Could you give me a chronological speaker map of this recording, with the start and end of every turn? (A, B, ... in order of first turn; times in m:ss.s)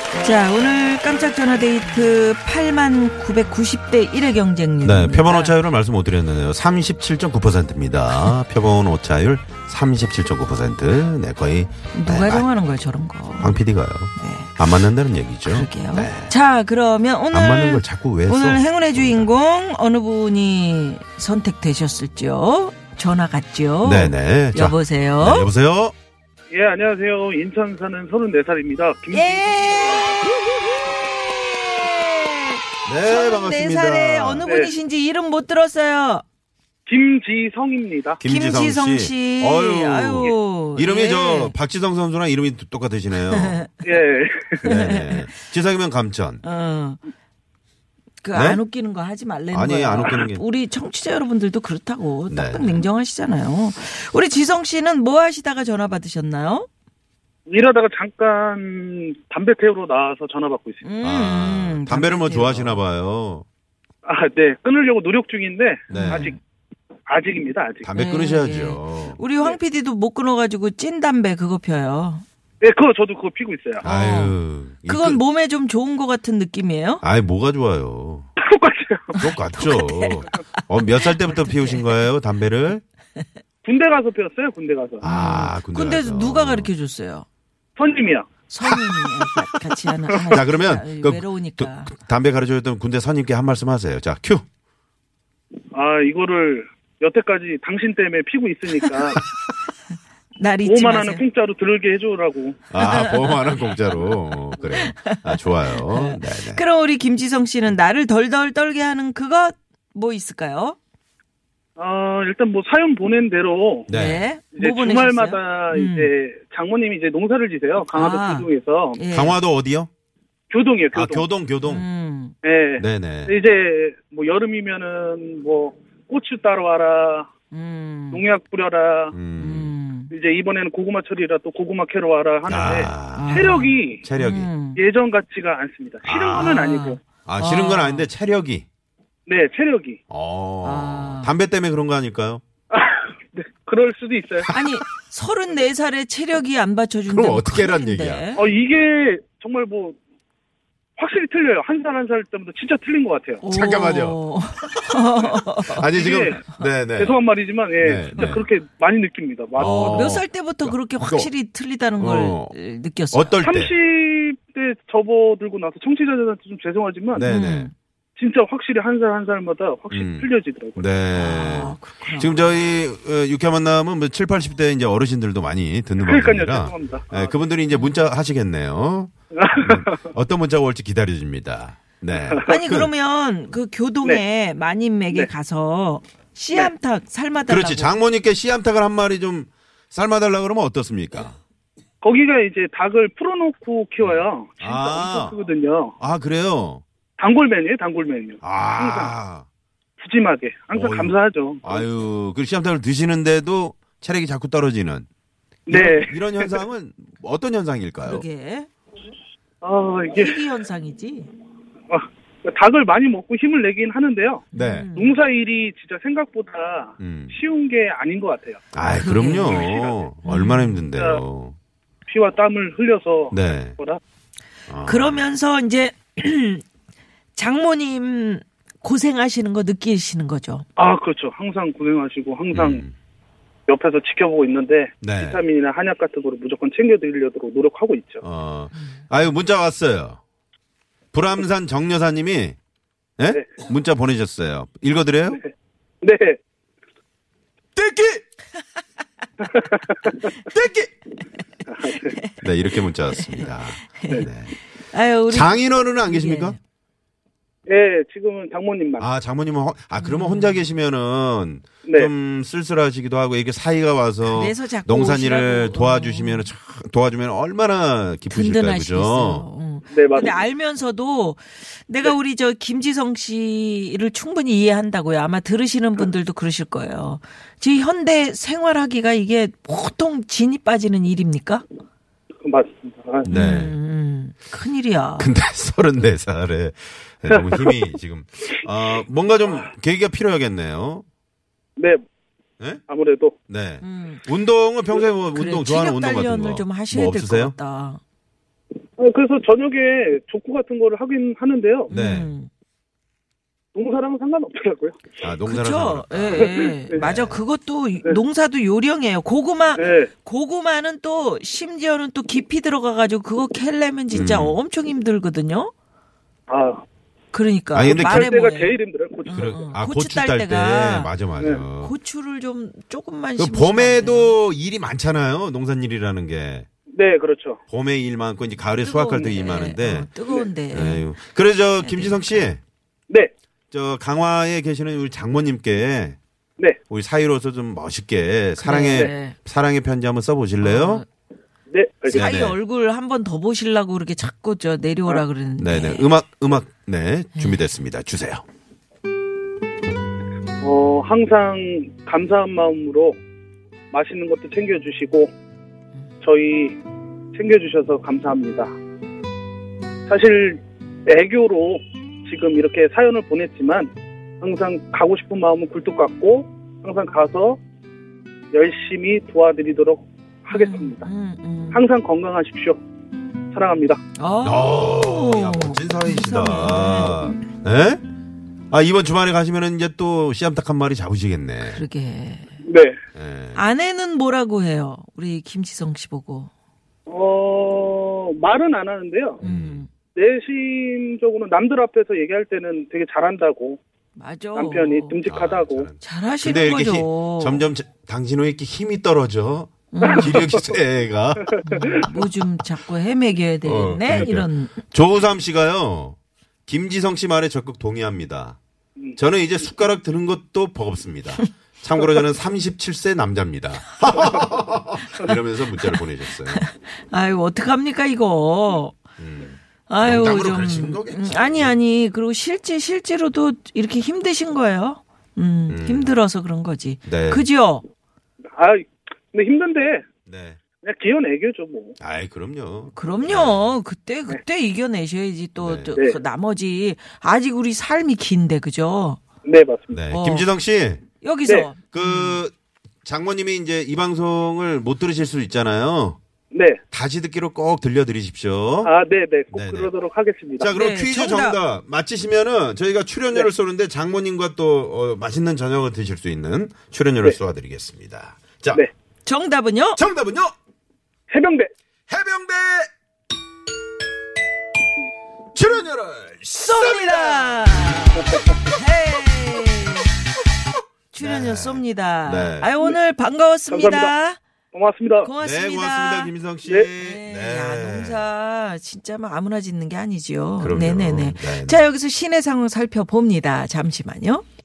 0:00.2-0:05.6 A
0:04.8-0:12.5 B
0:11.9-0:13.6 A
0:13.4-0:16.3 B
0:14.1-0:14.6 A
0:15.5-0:25.5 A
0:17.3-0:19.3 B
0:23.8-0:25.9 B
0:26.5-0:30.2 C
0:29.1-0:30.3 A
0:31.4-0:36.2 A
0:32.8-0:34.5 B
0:34.4-0:34.7 C
0:36.8-0:38.2 C
0:38.2-0:43.6 B
0:38.2-0:41.5 A
0:43.3-0:43.7 A
0:43.8-0:44.6 C
0:44.6-0:46.4 B
0:44.6-0:45.3 A
0:46.4-0:47.0 A
0:48.2-0:56.7 A
0:48.3-0:48.6 B
0:49.5-0:50.4 B
0:52.3-0:52.8 B
0:57.5-1:00.8 C
1:00.8-1:02.8 A
1:01.0-1:03.4 B
1:04.0-1:06.3 C
1:05.9-1:06.3 B
1:05.9-1:06.4 A
1:07.1-1:07.9 C
1:07.8-1:09.2 B
1:07.9-1:12.2 A
1:12.6-1:13.8 C
1:13.8-1:15.2 B
1:13.8-1:17.0 A
1:17.0-1:18.3 B
1:18.4-1:19.2 C
1:19.1-1:22.0 A
1:19.2-1:22.8 B
1:23.6-1:25.0 C
1:25.0-1:26.7 B
1:25.0-1:27.2 A
1:27.8-1:28.3 C
1:28.5-1:31.9 A
1:30.3-1:34.4 B
1:35.7-1:39.2 C
1:40.4-1:41.2 A
1:40.6-1:42.6 C
1:42.7-1:46.6 B
1:42.8-1:50.8 A
1:51.8-1:53.9 C
1:53.9-1:54.3 B
1:53.9-1:56.1 A
1:54.5-1:59.0 C
1:57.9-1:59.4 A
1:59.1-1:59.9 B
2:00.5-2:01.2 C
2:00.9-2:01.8 B
2:01.6-2:02.3 A
2:02.4-2:07.3 C
2:02.8-2:03.3 B
2:07.5-2:08.2 A
2:08.1-2:09.2 C
2:09.1-2:09.7 B
2:09.4-2:10.1 A
2:10.1-2:14.0 C
2:12.5-2:14.5 B
2:13.1-2:14.8 A
2:14.7-2:17.0 C
2:16.0-2:16.6 B
2:16.4-2:18.1 A
2:17.2-2:18.7 B
2:19.3-2:20.0 C
2:20.1-2:22.4 B
2:20.6-2:21.3 A
2:22.7-2:24.6 C
2:24.5-2:28.4 A
2:27.1-2:28.3 B
2:28.4-2:30.0 C
2:31.0-2:33.4 C
2:33.4-2:36.6 A
2:33.4-2:37.1 B
2:35.9-2:36.4 C
2:37.0-2:40.2 C
2:37.8-2:38.4 B
2:39.6-2:41.3 B
2:39.7-2:43.4 A
2:42.0-2:42.5 B
2:43.1-2:43.7 B
2:43.4-2:47.3 C
2:47.1-2:47.7 B
2:47.2-2:47.7 A
2:48.2-2:50.8 C
2:49.9-3:02.9 B
2:51.1-2:52.4 A
2:56.0-2:57.3 C
2:57.7-2:58.0 A
2:59.3-3:00.0 C
3:02.1-3:02.4 C
3:02.4-3:08.0 A
3:07.5-3:11.4 B
3:12.0-3:15.9 C
3:14.0-3:15.4 B
3:16.0-3:16.8 B
3:17.2-3:19.1 C
3:18.4-3:19.4 B
3:20.0-3:21.8 C
3:20.7-3:25.1 B
3:25.7-3:26.6 C
3:25.7-3:28.2 B
3:28.0-3:28.7 A
3:29.6-3:30.4 C
3:30.1-3:31.3 A
3:31.9-3:38.6 C
3:34.5-3:34.9 B
3:34.5-3:35.2 A
3:37.0-3:37.3 B
3:38.7-3:41.6 B
3:38.9-3:39.6 A
3:39.5-3:40.0 C
3:40.2-3:40.8 A
3:40.9-3:41.2 C
3:42.1-3:44.0 C
3:43.3-3:43.8 B
3:44.7-3:45.3 B
3:44.8-3:46.6 A
3:47.3-3:50.6 A
3:50.8-3:52.8 C
3:52.5-3:52.9 B
3:53.7-3:58.2 C
3:55.0-3:55.4 B
3:58.2-4:00.2 B
3:58.7-3:59.0 A
4:01.1-4:02.6 B
4:03.2-4:05.4 B
4:06.0-4:06.4 C
4:07.8-4:08.2 B
4:09.4-4:10.2 C
4:10.3-4:10.9 B
4:11.8-4:12.4 A
4:12.4-4:14.6 B
4:13.1-4:14.3 A
4:14.9-4:16.6 A
4:15.3-4:16.6 B
4:17.7-4:19.1 C
4:19.0-4:29.4 B
4:20.0-4:20.6 A
4:21.8-4:22.1 C
4:24.3-4:26.5 A
4:28.3-4:41.6 A
4:29.9-4:30.4 C
4:42.4-4:43.3 C
4:43.2-4:43.8 B
4:43.2-4:45.3 A
4:45.2-4:51.0 B
4:51.8-4:52.0 C
4:52.9-4:53.3 C
4:53.5-4:57.5 B
4:53.8-4:54.2 A
4:55.3-4:58.0 A
4:59.0-5:01.9 C
5:01.9-5:02.3 B
5:01.9-5:02.5 A
5:03.7-5:05.0 C
5:05.2-5:07.4 B
5:05.4-5:15.7 A
5:06.4-5:07.1 C
5:09.8-5:10.1 C
5:14.1-5:14.6 B
5:16.5-5:16.8 C
5:17.3-5:21.1 A
5:17.7-5:18.4 B
5:17.8-5:19.6 C
5:19.3-5:21.9 B
5:21.8-5:24.4 A
5:23.4-5:26.7 B
5:26.9-5:27.6 C
5:27.7-5:30.1 B
5:28.8-5:31.1 A
5:30.7-5:32.6 B
5:31.8-5:32.5 A
5:33.7-5:36.2 B
5:36.9-5:41.0 B
5:38.6-5:39.4 A
5:40.6-5:41.0 A
5:41.7-5:42.3 C
5:42.1-5:46.1 A
5:42.1-5:42.6 B
5:45.6-5:48.4 B
5:47.4-5:47.6 A
5:50.6-5:53.2 C
5:53.9-5:55.3 C
5:56.2-5:56.8 C
5:57.3-5:58.7 C
6:00.1-6:07.6 C
6:08.5-6:11.1 C
6:10.5-6:11.8 A
6:11.7-6:12.8 C
6:13.5-6:14.0 C
6:14.2-6:17.3 A
6:14.4-6:18.0 B
6:18.7-6:21.8 B
6:21.7-6:22.6 A
6:22.6-6:23.0 C
6:23.1-6:23.6 B
6:23.5-6:26.5 A
6:27.1-6:29.4 C
6:29.4-6:29.9 A
6:29.4-6:29.9 B
6:30.1-6:33.8 C
6:34.1-6:35.2 A
6:34.6-6:35.9 C
6:35.2-6:42.0 B
6:36.0-6:37.7 A
6:39.9-6:40.4 A
6:40.0-6:40.6 C
6:41.4-6:42.2 C
6:41.6-6:44.8 A
6:43.6-6:48.6 B
6:49.2-6:56.6 B
6:55.1-6:59.0 A
6:59.2-7:01.7 B
6:59.9-7:07.8 A
7:05.7-7:06.1 B
7:07.0-7:07.5 B
7:08.5-7:10.0 C
7:10.3-7:10.6 B
7:10.8-7:12.0 C
7:12.0-7:13.6 B
7:12.9-7:19.2 A
7:15.6-7:16.0 B
7:19.4-7:20.0 C
7:19.9-7:21.0 B
7:20.1-7:20.5 A
7:21.2-7:22.4 A
7:21.9-7:22.5 B
7:23.0-7:26.2 B
7:26.5-7:26.8 C
7:26.9-7:28.9 B
7:28.8-7:30.7 C
7:29.5-7:29.9 B
7:30.6-7:38.8 B
7:30.6-7:31.6 A
7:39.2-7:40.0 A
7:40.0-7:40.5 B
7:41.3-7:41.7 C
7:42.1-7:42.9 B
7:45.5-7:47.9 B
7:46.5-7:50.1 A
7:51.1-7:54.4 A
7:51.2-7:52.7 B
7:53.7-7:54.1 C
7:54.7-7:55.3 C
7:55.2-7:56.3 A
7:55.4-7:58.3 B
7:56.9-8:04.4 A
8:00.6-8:01.8 B